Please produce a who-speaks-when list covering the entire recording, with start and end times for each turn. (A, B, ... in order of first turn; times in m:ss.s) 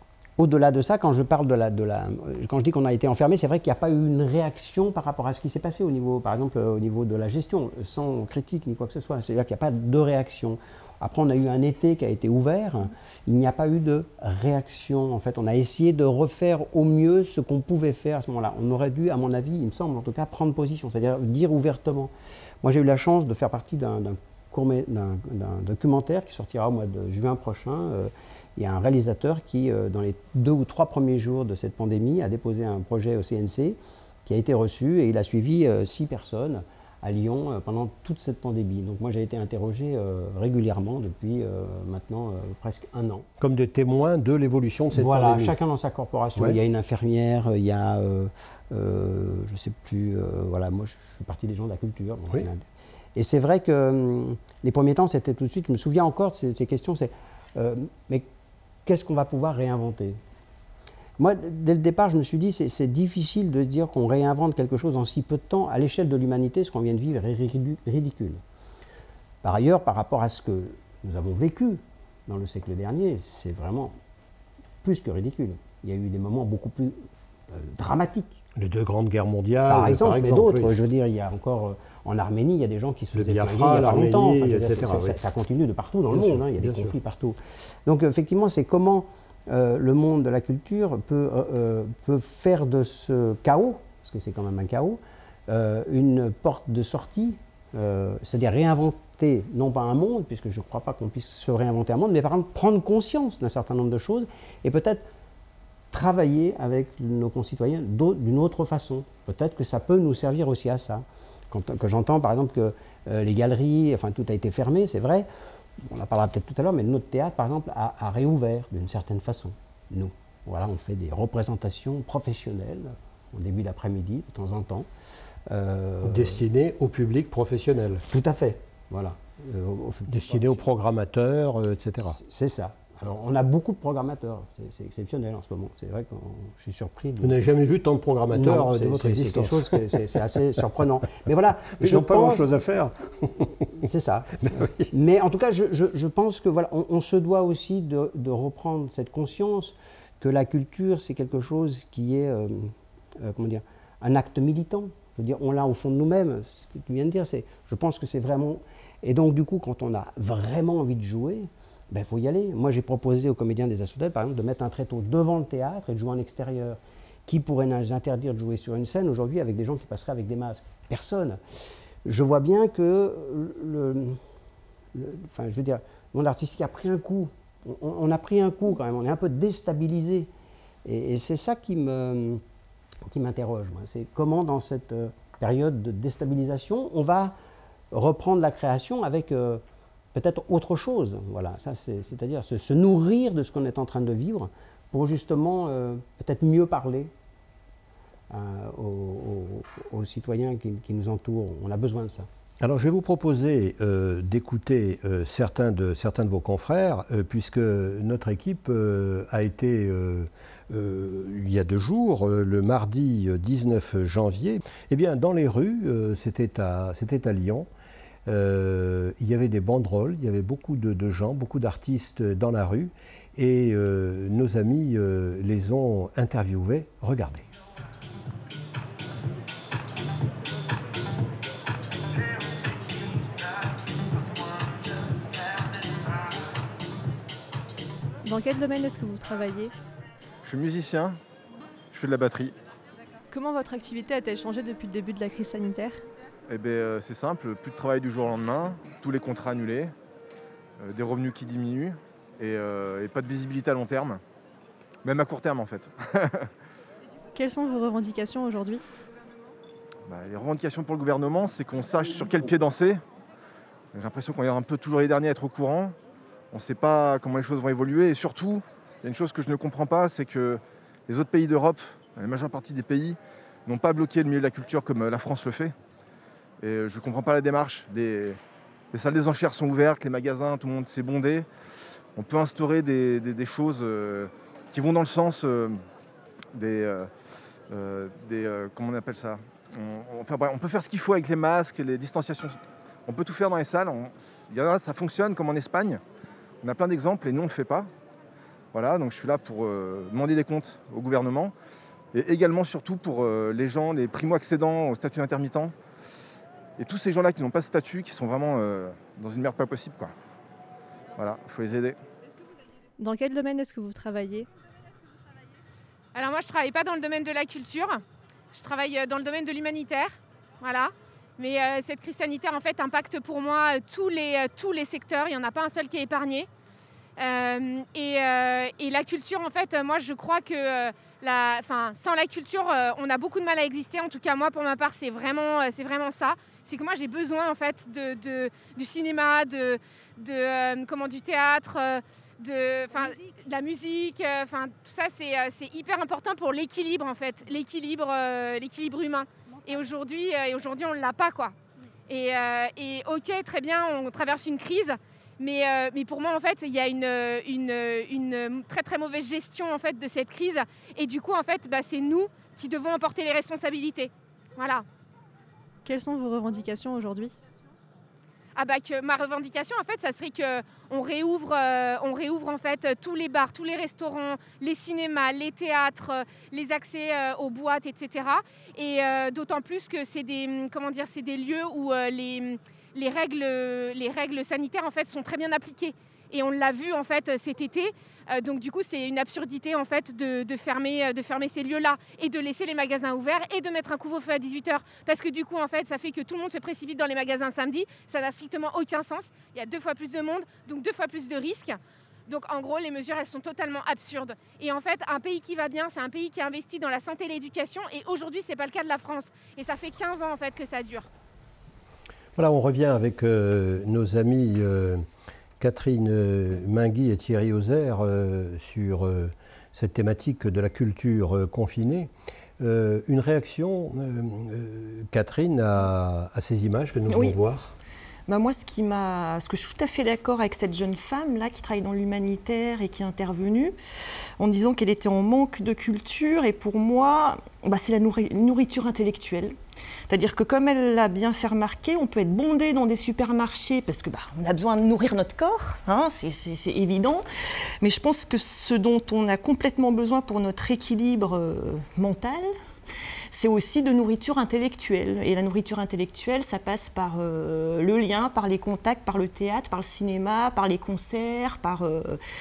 0:00.4-0:43.3 A
0:43.4-0:45.6 B
0:44.9-0:58.3 A
0:58.9-1:00.2 A
1:01.2-1:08.4 A
1:09.4-1:14.0 A
1:14.8-1:18.4 A
1:18.6-1:20.8 B
1:19.6-1:45.1 A
1:23.2-1:25.2 B
1:26.1-1:27.0 B
1:45.9-2:04.9 A
2:05.5-2:06.4 A
2:06.0-2:08.0 B
2:08.1-2:10.7 A
2:10.1-2:12.2 B
2:12.0-2:17.5 A
2:17.2-2:20.0 B
2:18.3-2:22.5 A
2:21.8-2:23.8 B
2:23.8-2:51.4 A
2:24.4-2:24.9 B
2:52.1-2:54.2 A
2:54.9-3:00.3 A
3:00.8-3:02.4 A
3:03.0-3:07.4 A
3:07.9-3:09.6 A
3:10.1-3:17.1 A
3:18.3-3:22.3 A
3:22.6-3:37.7 B
3:38.3-3:47.5 B
3:58.2-3:59.7 C
4:00.4-4:01.2 D
4:01.9-4:02.6 D
4:03.3-4:06.0 C
4:06.5-4:09.9 D
4:10.8-4:14.2 D
4:15.0-4:16.5 D
4:17.4-4:18.8 C
4:20.1-4:23.0 D
4:23.9-4:26.0 D
4:26.5-4:35.7 D
4:36.6-4:38.4 D
4:38.9-4:41.5 D
4:42.2-4:45.8 D
4:46.5-4:47.1 D
4:47.7-4:56.0 D
4:56.6-4:57.9 D
4:58.7-5:01.5 D
5:02.1-5:05.8 D
5:06.8-5:10.1 D
5:11.2-5:12.0 D
5:13.0-5:14.5 C
5:16.1-5:18.0 E
5:18.5-5:26.5 E
5:27.2-5:51.6 E
5:52.1-6:04.8 E
6:05.8-6:07.3 C
6:08.6-6:51.1 E
6:52.4-6:55.1 B
6:55.6-7:07.8 B
7:07.1-7:07.4 F
7:08.3-7:13.8 F
7:14.4-7:19.6 F
7:20.1-7:27.3 F
7:27.8-7:32.5 F
7:33.3-7:42.2 F